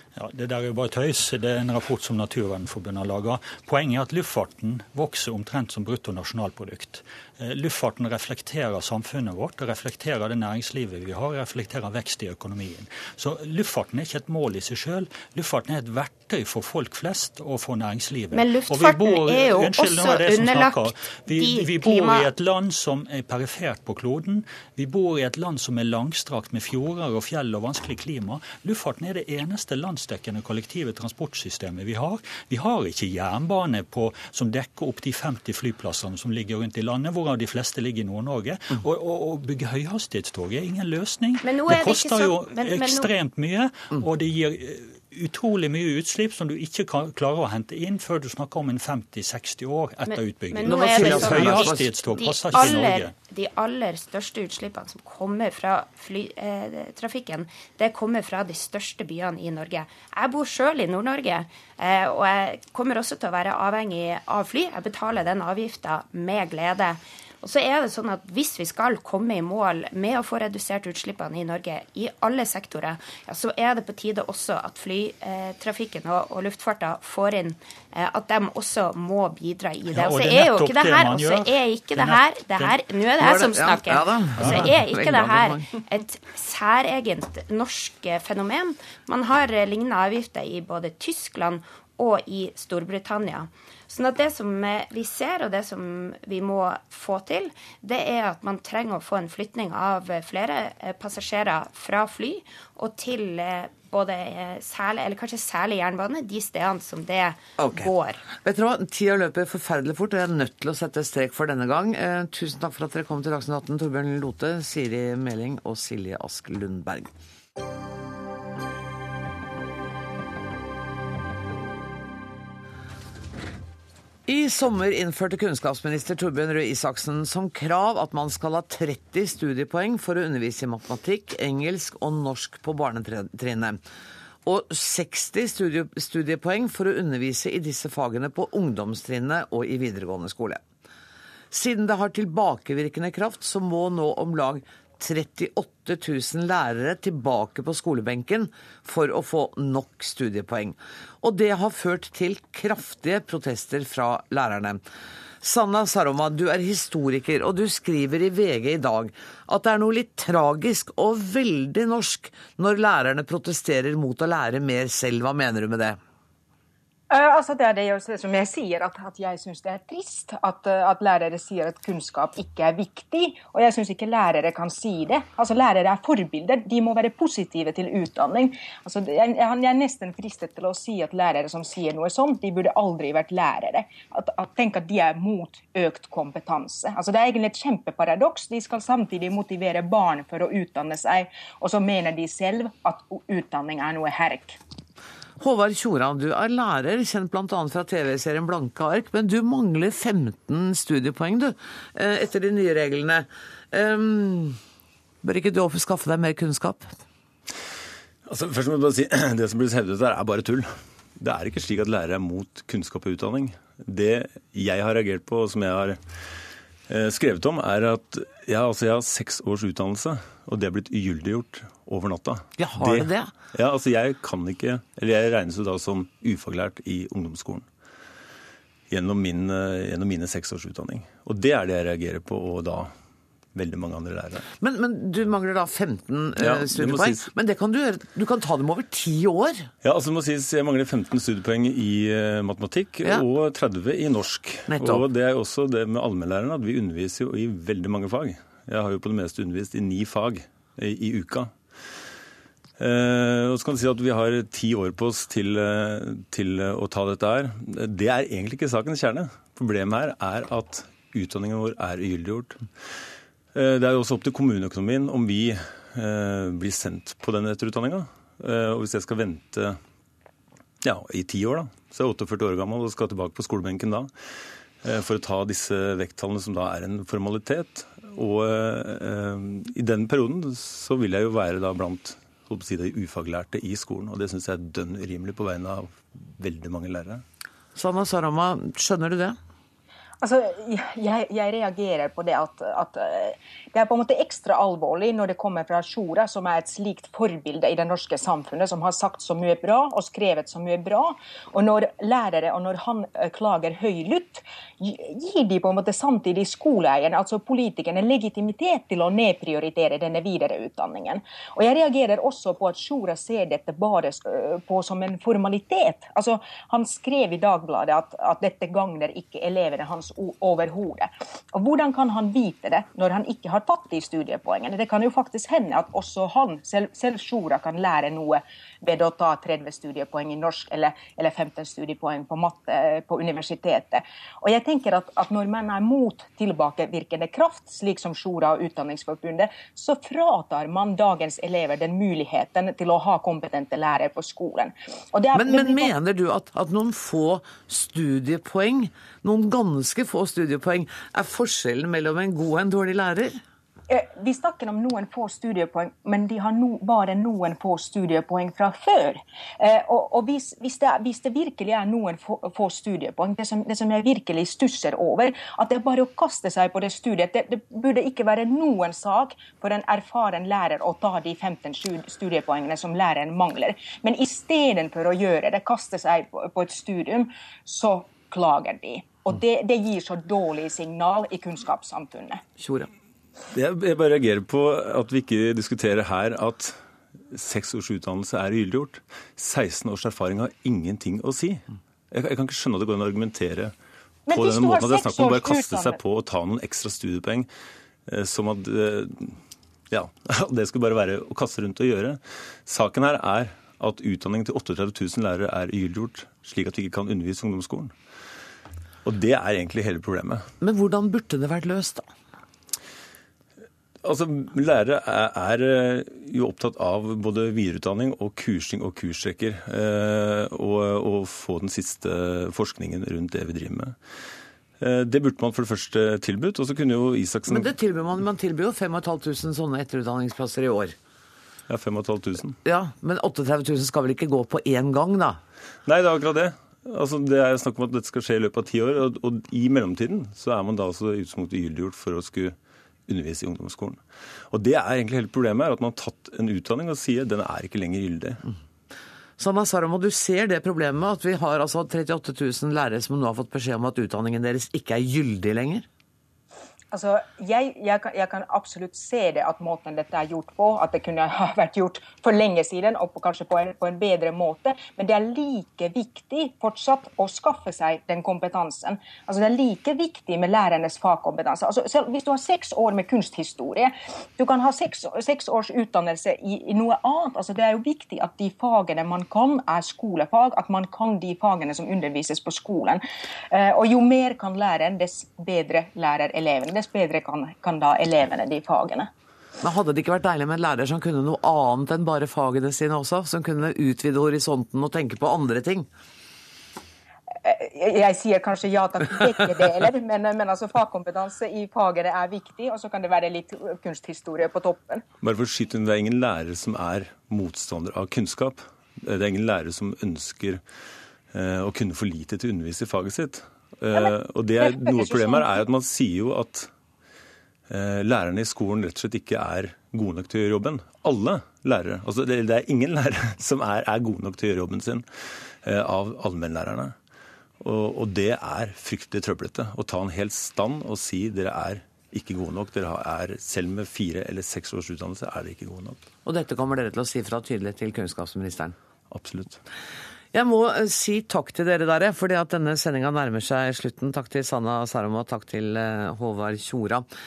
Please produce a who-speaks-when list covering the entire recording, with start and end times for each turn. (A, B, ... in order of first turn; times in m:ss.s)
0:00.2-0:53.2 A
0:18.3-0:22.3 B
0:41.4-0:43.1 B
0:50.1-1:48.2 B
0:50.6-0:52.0 C
1:19.9-1:22.8 A
1:23.2-1:25.7 C
1:24.4-1:24.7 A
1:47.6-1:57.1 C
2:04.3-2:13.8 C
2:14.4-2:20.6 C
2:21.5-2:34.8 C
2:35.4-2:46.0 C
2:47.1-3:14.6 D
3:15.4-3:24.6 C
3:25.2-3:27.0 C
3:28.3-3:36.0 E
3:36.9-3:47.7 E
3:42.6-3:43.3 C
3:48.9-3:52.9 E
3:53.6-3:54.4 E
3:54.6-3:59.7 C
3:56.4-3:57.3 E
3:59.8-4:11.6 E
4:04.7-4:05.1 C
4:12.8-4:22.6 E
4:23.6-4:29.8 E
4:30.8-4:34.1 E
4:34.8-4:47.2 E
4:47.8-4:49.4 C
4:50.2-5:45.9 D
5:45.3-5:53.4 C
5:53.9-6:22.4 D
6:22.6-6:22.9 C
6:23.5-6:26.8 E
6:27.3-6:33.7 E
6:34.3-6:36.0 D
6:34.3-6:37.5 E
6:38.1-6:39.4 E
6:39.9-6:47.9 E
6:49.0-6:50.5 E
6:50.6-6:52.1 C
6:54.0-7:04.0 E
7:04.8-7:07.7 E
7:07.5-7:11.0 C
7:11.7-7:12.6 E
7:12.6-7:15.4 C
7:15.9-7:22.6 E
7:23.1-7:28.4 E
7:29.4-7:35.9 C
7:36.9-8:09.1 D
8:09.6-8:15.9 C
8:17.4-8:25.0 D
8:25.2-8:30.6 E
8:31.3-8:36.7 E
8:34.0-8:35.5 D
8:37.7-8:45.1 E
8:45.6-8:47.0 E
8:47.6-8:56.0 E
8:56.2-8:58.8 C
8:59.1-8:59.6 E
9:00.3-9:07.0 C